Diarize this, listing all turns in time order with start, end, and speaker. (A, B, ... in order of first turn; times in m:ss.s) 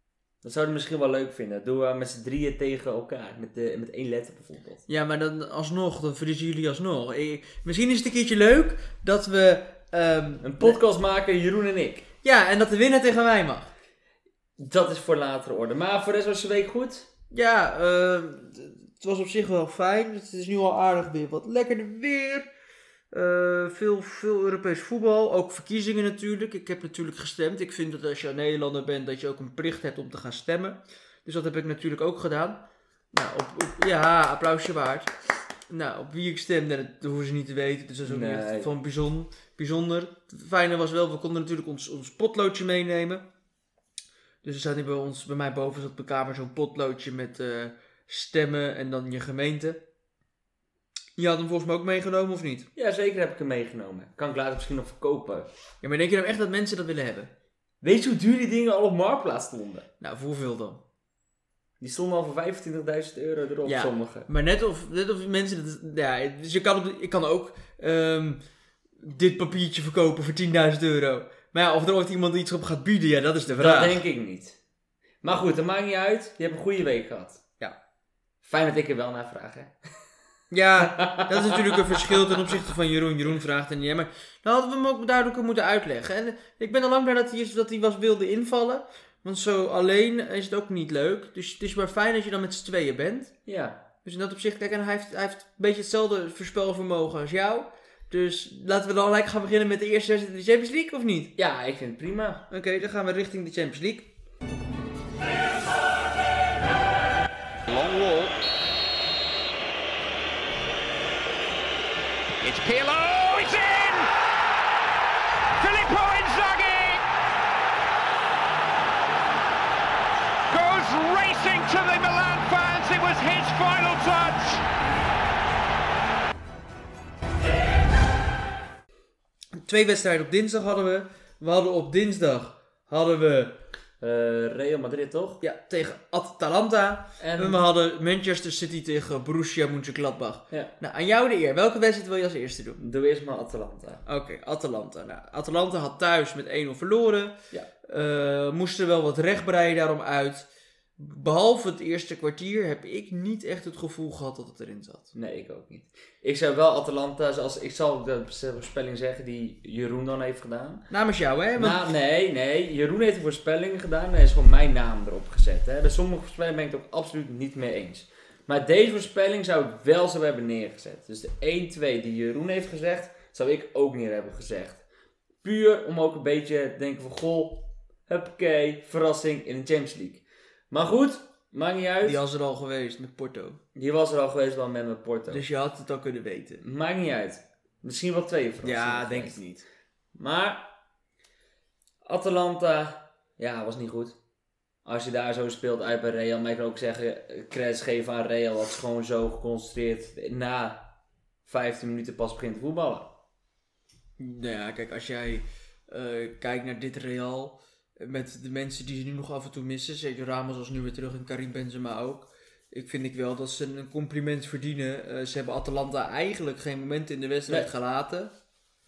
0:00.4-0:04.8 A
0:04.9-0:10.8 B
0:10.4-0:12.0 A
0:12.2-0:13.7 B
0:14.6-0:17.1 A
0:17.3-0:22.5 B
0:23.1-0:35.1 B
0:35.7-0:43.2 B
0:38.0-0:38.7 A
0:44.4-0:49.8 B
0:51.2-0:52.7 B
0:52.8-0:55.5 A
0:55.8-0:57.3 B
0:57.8-0:59.8 A
1:00.0-1:00.8 B
1:01.8-1:04.3 A
1:03.6-1:08.4 B
1:09.0-1:14.0 B
1:13.6-1:14.6 A
1:15.2-1:17.4 A
1:18.4-1:19.7 A
1:20.5-1:33.3 B
1:20.8-1:22.5 A
1:33.4-1:33.8 A
1:34.0-1:41.3 B
1:41.4-1:42.4 A
1:42.5-1:44.1 B
1:47.7-1:48.3 C
1:52.4-1:54.1 C
1:55.6-1:57.0 C
2:00.5-2:04.6 C
2:09.6-2:13.5 B
2:14.0-2:15.4 A
2:15.4-2:22.8 B
2:17.2-2:17.7 A
2:22.8-2:24.0 A
2:24.0-2:30.5 B
2:31.0-2:35.1 B
2:35.1-2:40.9 A
2:40.9-2:41.9 B
2:41.6-2:54.8 A
2:55.4-3:02.2 A
3:02.0-3:03.6 B
3:03.7-3:05.4 A
3:05.3-3:06.6 B
3:06.6-3:09.4 A
3:08.6-3:09.6 B
3:10.1-3:10.7 A
3:12.0-3:14.2 A
3:14.8-3:20.9 A
3:21.4-3:23.1 A
3:24.2-3:38.3 B